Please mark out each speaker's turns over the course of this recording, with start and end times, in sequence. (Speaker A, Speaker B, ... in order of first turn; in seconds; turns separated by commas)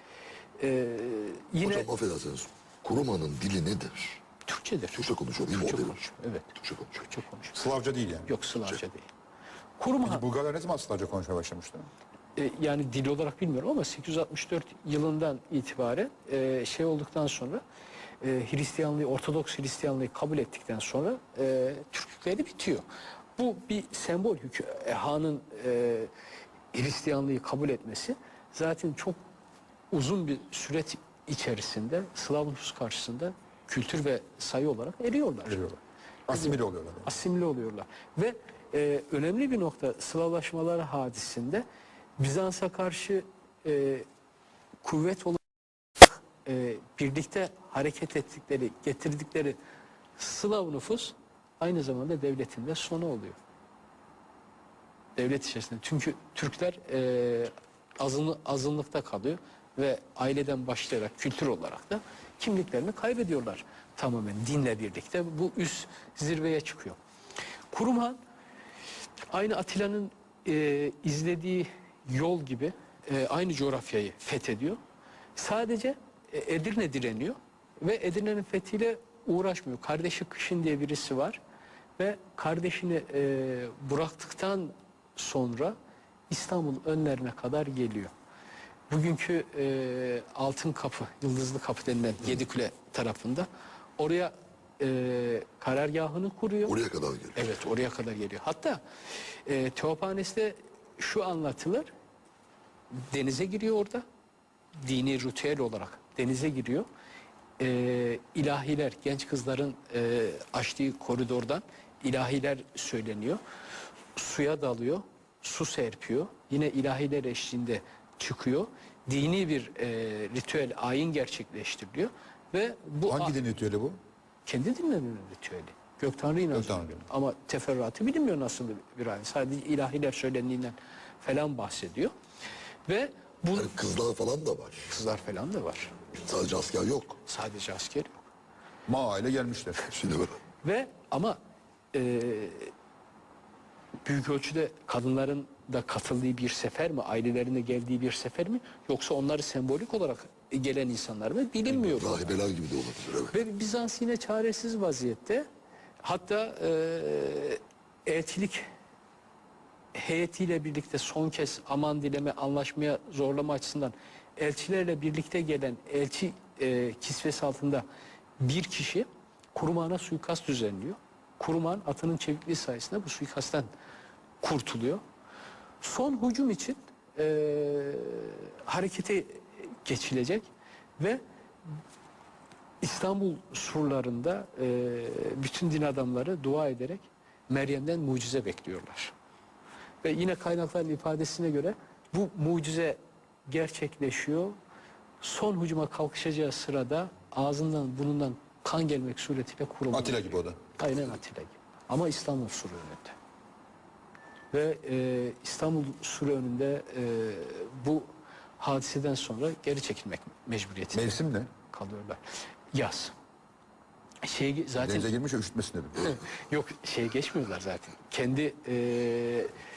Speaker A: 0.6-1.9, Speaker B: 1.6-4.2, Speaker A: 4.5-7.6, Speaker B: 4.9-6.0, Speaker B: 6.6-6.9, Speaker C: 7.5-8.3, Speaker A: 8.2-9.1, Speaker A: 9.8-10.2, Speaker C: 10.0-11.9, Speaker A: 12.3-17.6, Speaker A: 18.2-22.8, Speaker A: 23.4-26.1, Speaker A: 26.7-29.2, Speaker A: 29.9-35.6, Speaker C: 35.5-37.1, Speaker A: 36.3-41.6, Speaker A: 42.2-44.1, Speaker A: 44.8-45.4, Speaker A: 46.0-49.6, Speaker A: 50.2-53.4, Speaker A: 55.1-67.0, Speaker A: 67.7-68.2, Speaker A: 69.3-74.8, Speaker A: 75.4-81.4, Speaker A: 82.0-85.7, Speaker A: 86.3-88.1, Speaker A: 88.9-96.8, Speaker B: 96.7-97.5, Speaker A: 97.3-98.8, Speaker A: 99.4-101.9, Speaker A: 103.0-104.0, Speaker A: 104.8-106.9, Speaker A: 107.6-113.4, Speaker A: 114.2-123.3, Speaker C: 123.1-124.0, Speaker A: 124.5-132.1, Speaker C: 126.5-127.1, Speaker A: 132.9-133.7, Speaker B: 133.5-134.9, Speaker A: 134.9-135.9, Speaker B: 136.2-137.2, Speaker A: 137.2-138.2, Speaker C: 138.9-139.9, Speaker B: 139.9-140.4, Speaker A: 140.6-141.4, Speaker A: 141.9-142.7, Speaker A: 144.0-152.4, Speaker B: 151.7-153.3, Speaker A: 153.3-155.4, Speaker A: 156.0-158.6, Speaker A: 159.9-167.8, Speaker A: 168.4-173.7, Speaker A: 174.4-175.0, Speaker A: 175.8-181.2, Speaker A: 182.8-189.1, Speaker A: 190.0-194.6, Speaker A: 195.2-203.1, Speaker C: 199.9-200.6, Speaker A: 204.5-212.2, Speaker C: 210.9-211.5, Speaker A: 212.7-213.1, Speaker A: 214.2-215.1, Speaker C: 214.8-216.2, Speaker A: 216.0-219.5